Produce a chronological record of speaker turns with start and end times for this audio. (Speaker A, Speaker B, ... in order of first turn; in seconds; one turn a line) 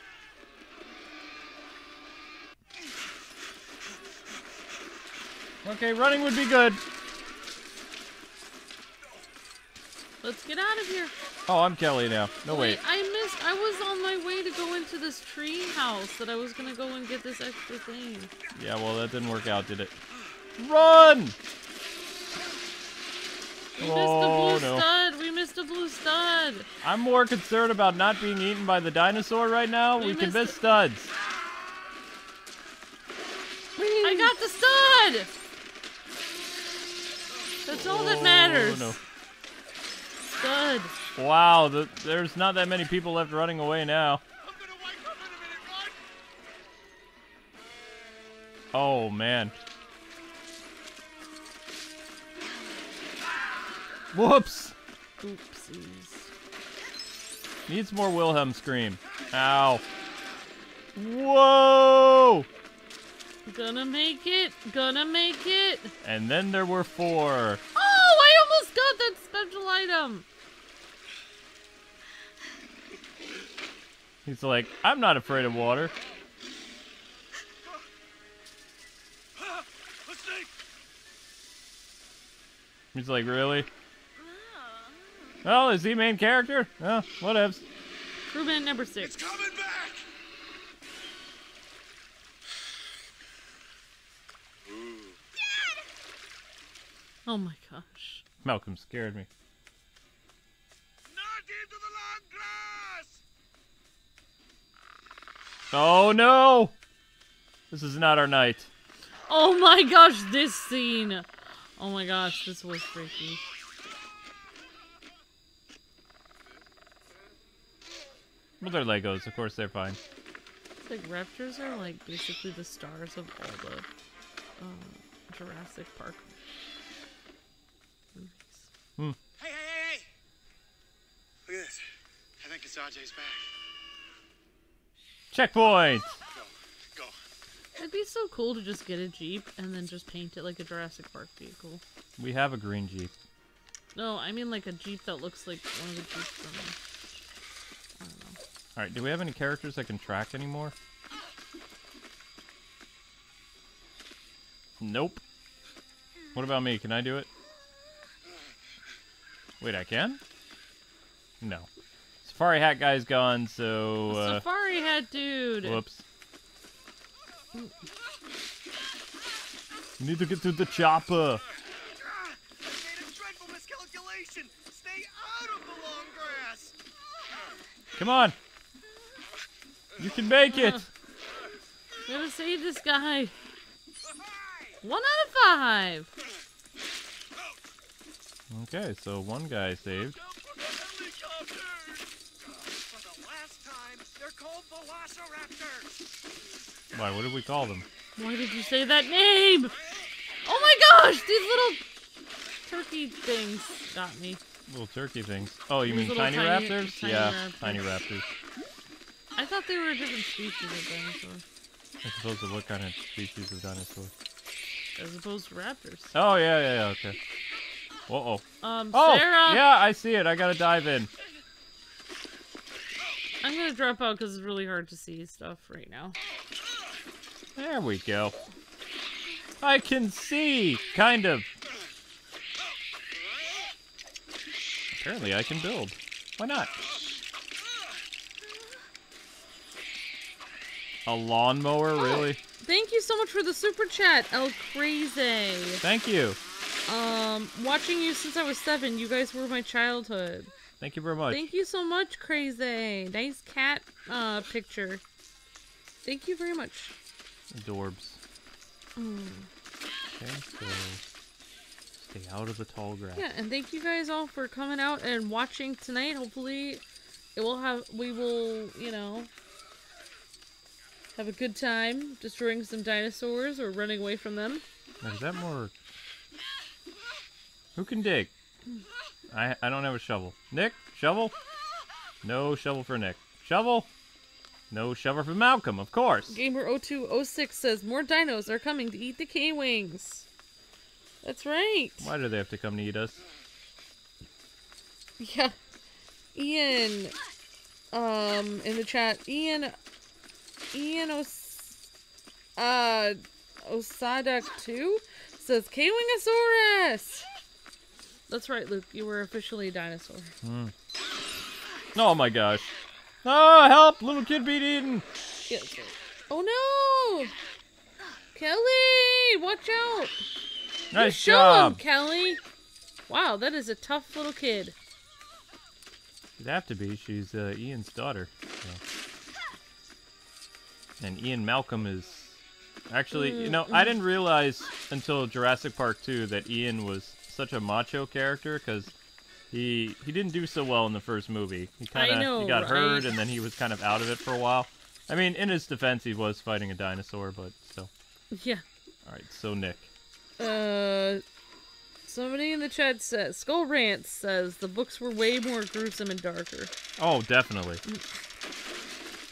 Speaker A: 5.6-6.8
Speaker B: 10.2-11.1
Speaker A: 11.4-12.8
Speaker B: 12.5-18.3
Speaker A: 18.5-19.9
Speaker A: 20.6-21.4
Speaker A: 23.8-24.9
Speaker B: 23.8-26.7
Speaker A: 26.8-31.1
Speaker B: 30.0-30.6
Speaker A: 33.8-34.3
Speaker B: 34.0-35.3
Speaker B: 37.6-39.0
Speaker A: 37.7-39.0
Speaker B: 40.3-40.9
Speaker A: 41.1-44.2
Speaker C: 44.4-46.0
Speaker A: 48.7-49.6
Speaker A: 54.1-54.8
Speaker B: 55.2-56.3
Speaker A: 57.7-59.8
Speaker A: 60.9-62.5
Speaker B: 63.5-65.9
Speaker A: 66.0-67.6
Speaker B: 67.7-70.3
Speaker A: 74.2-75.9
Speaker C: 79.4-80.5
Speaker A: 82.9-83.7
Speaker A: 85.4-87.6
Speaker B: 88.3-89.2
Speaker C: 89.0-90.0
Speaker B: 97.2-98.2
Speaker A: 98.4-99.3
Speaker C: 101.1-103.2
Speaker A: 105.7-106.8
Speaker A: 107.7-108.7
Speaker B: 109.3-113.4
Speaker A: 118.6-120.0
Speaker B: 120.8-123.9
Speaker B: 124.6-126.3
Speaker B: 128.1-128.7
Speaker C: 129.4-130.0
Speaker C: 131.5-131.8
Speaker C: 132.4-133.4
Speaker A: 135.3-136.2
Speaker C: 136.3-137.1
Speaker B: 137.8-141.8
Speaker A: 142.2-143.1
Speaker B: 143.9-146.8
Speaker B: 148.0-148.4
Speaker A: 148.8-150.7
Speaker A: 154.8-155.2
Speaker A: 156.3-157.3
Speaker A: 159.6-160.2
Speaker A: 161.4-161.7
Speaker A: 162.2-164.4
Speaker B: 164.1-165.8
Speaker A: 165.6-166.0
Speaker A: 170.0-171.4
Speaker C: 172.1-176.7
Speaker A: 178.0-178.4
Speaker A: 180.0-180.9
Speaker B: 180.4-180.9
Speaker B: 182.1-183.3
Speaker C: 184.4-184.7
Speaker B: 184.8-186.1
Speaker A: 188.5-190.2
Speaker C: 190.2-195.9
Speaker A: 196.9-197.9
Speaker B: 198.2-199.7
Speaker B: 200.4-201.8
Speaker B: 202.7-204.4
Speaker A: 204.7-208.3
Speaker B: 205.8-207.8
Speaker B: 209.3-211.4
Speaker A: 212.0-214.1
Speaker B: 214.9-216.1
Speaker A: 216.1-217.2
Speaker A: 218.1-221.1
Speaker B: 218.6-219.6
Speaker B: 223.4-226.2
Speaker A: 227.6-228.4
Speaker A: 229.6-231.5
Speaker A: 234.9-236.8
Speaker A: 241.1-242.4
Speaker B: 241.9-245.8
Speaker A: 245.8-246.4
Speaker B: 246.9-250.5
Speaker A: 250.8-251.4
Speaker B: 251.3-255.0
Speaker B: 256.0-256.9
Speaker A: 257.5-258.2
Speaker B: 258.9-259.5
Speaker A: 260.1-261.0
Speaker A: 262.0-263.3
Speaker B: 263.1-266.8
Speaker B: 267.3-269.3
Speaker B: 271.1-274.6
Speaker A: 275.0-275.7
Speaker A: 277.7-278.3
Speaker A: 279.3-281.3
Speaker A: 282.2-283.9
Speaker A: 284.7-286.4
Speaker B: 286.3-290.3
Speaker B: 291.2-292.1
Speaker A: 292.0-293.2
Speaker B: 295.2-295.6
Speaker B: 296.3-297.1
Speaker B: 297.9-299.7
Speaker B: 300.7-301.8
Speaker B: 302.6-307.2
Speaker B: 308.3-310.3
Speaker A: 310.4-310.7
Speaker A: 311.9-315.0
Speaker B: 315.5-317.3
Speaker B: 318.3-320.2
Speaker A: 320.9-321.8
Speaker B: 320.9-322.4
Speaker B: 323.1-324.7
Speaker A: 326.4-328.8
Speaker A: 331.0-338.9
Speaker B: 333.1-333.9
Speaker A: 339.5-347.9
Speaker B: 341.9-343.1
Speaker B: 348.3-348.6
Speaker A: 349.0-349.9
Speaker B: 350.4-351.2
Speaker B: 352.1-356.7
Speaker A: 357.0-357.8